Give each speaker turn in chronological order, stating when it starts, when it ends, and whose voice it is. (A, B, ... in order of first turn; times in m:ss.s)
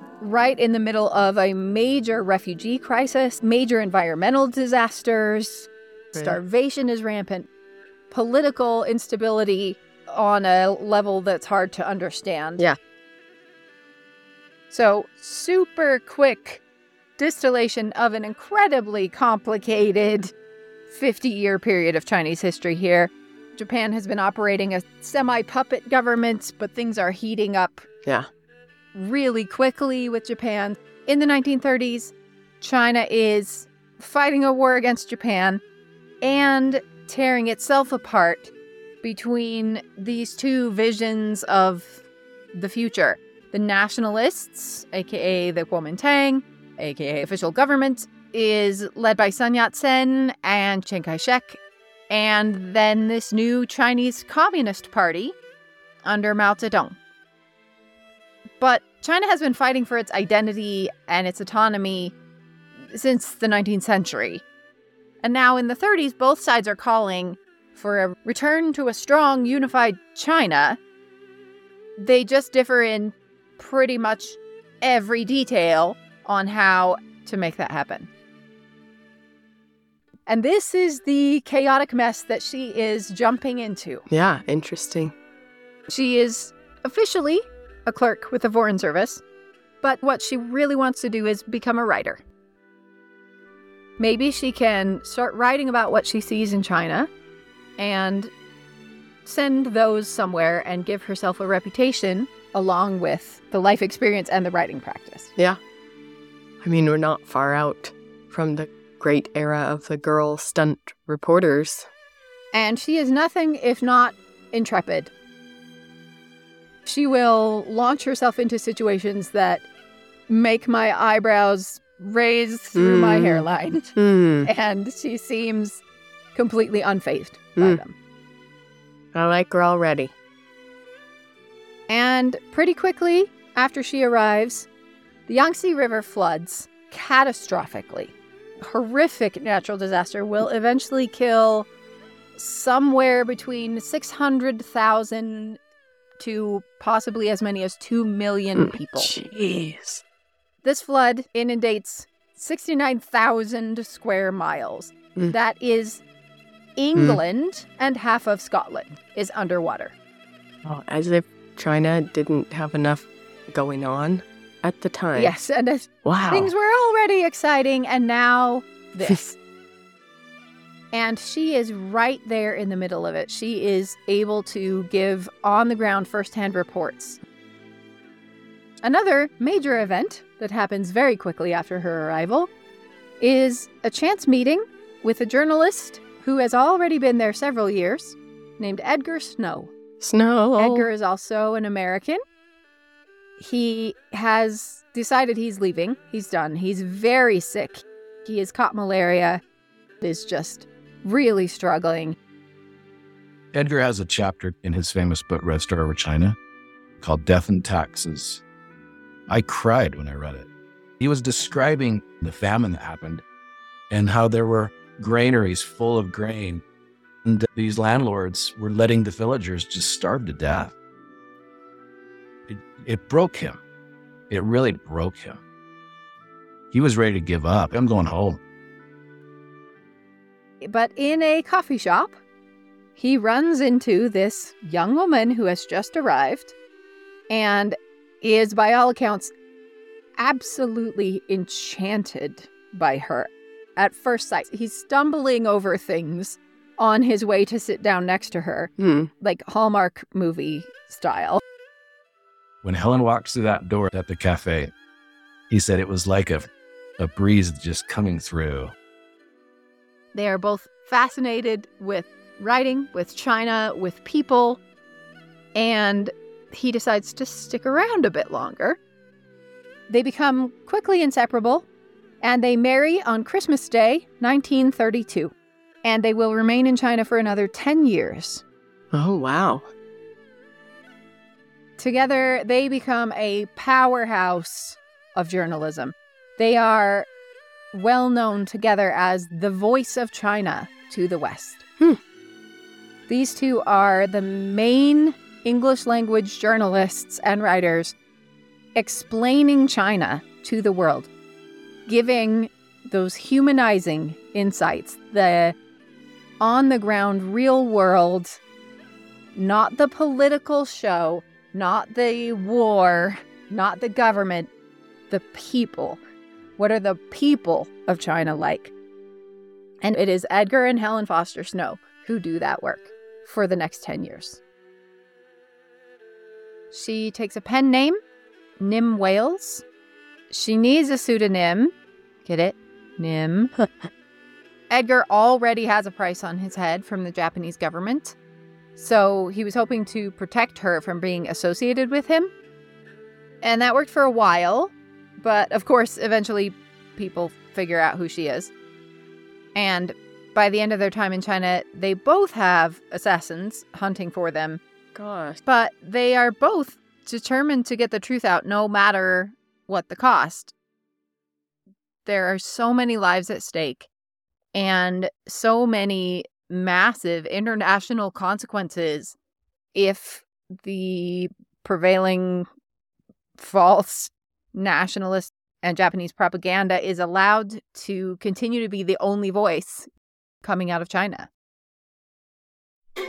0:00.2-0:07.5 A
0:08.1-0:12.6 A
0:14.7-0:16.6 A
0:17.2-0:20.3 A
0:20.9-0:27.8 A
0:28.9-0:35.6 A
0:36.2-0:38.5 A
0:39.0-0:55.4 A
0:56.0-0:57.0 A
0:58.6-1:02.1 A
1:02.8-1:04.4 A
1:05.2-1:10.8 A
1:12.0-1:18.1 A
1:20.3-1:24.0 A
1:24.1-1:25.1 B
1:25.9-1:29.2 A
1:29.8-1:32.2 A
1:34.0-1:37.1 A
1:37.8-1:38.3 A
1:39.2-1:45.3 A
1:46.6-1:51.9 B
1:52.5-1:55.1 A
1:56.8-1:59.6 A
2:00.3-2:05.8 A
2:02.7-2:04.5 B
2:06.3-2:08.0 A
2:09.1-2:10.1 B
2:11.9-2:14.7 A
2:15.3-2:21.7 A
2:22.4-2:25.6 A
2:26.2-2:29.1 A
2:28.6-2:30.0 B
2:30.6-2:36.0 A
2:36.8-2:39.9 A
2:37.0-2:37.2 B
2:40.6-2:45.3 B
2:45.1-2:49.4 A
2:46.0-2:46.5 B
2:50.9-2:57.2 A
2:58.8-3:02.5 A
3:03.2-3:09.7 A
3:10.0-3:10.9 B
3:10.6-3:12.2 A
3:13.4-3:19.4 A
3:20.0-3:22.2 A
3:23.5-3:26.4 C
3:27.0-3:28.4 C
3:29.3-3:30.5 C
3:31.0-3:33.2 C
3:33.9-3:36.6 C
3:37.2-3:40.7 C
3:42.5-3:43.6 C
3:44.3-3:45.4 C
3:46.7-3:48.4 C
3:50.6-3:52.2 A
3:53.0-3:56.5 A
3:57.3-3:59.3 A
4:00.2-4:11.4 A
4:08.8-4:09.1 B
4:12.6-4:14.7 C
4:15.5-4:18.7 C
4:20.1-4:24.6 A
4:25.5-4:28.8 A
4:29.9-4:31.6 A
4:32.2-4:35.3 A
4:35.8-4:38.4 A
4:38.9-4:39.7 B
4:41.8-4:47.1 A
4:47.7-4:51.6 A
4:53.1-4:57.9 A
4:58.8-5:01.1 A
5:01.9-5:05.5 A
5:06.4-5:08.4 A
5:09.3-5:14.5 A
5:15.1-5:16.0 A
5:16.6-5:18.7 A
5:19.8-5:24.4 A
5:26.7-5:28.0 A
5:28.6-5:29.6 A
5:30.3-5:31.7 A
5:32.2-5:33.5 A
5:33.6-5:33.9 B
5:34.7-5:38.2 A
5:38.8-5:42.3 A
5:43.4-5:48.5 A
5:49.5-5:54.6 A
5:54.9-5:55.4 B
5:55.4-6:00.5 A
6:02.0-6:03.9 A
6:04.5-6:09.2 A
6:09.7-6:12.5 A
6:13.4-6:19.9 A
6:20.4-6:21.3 A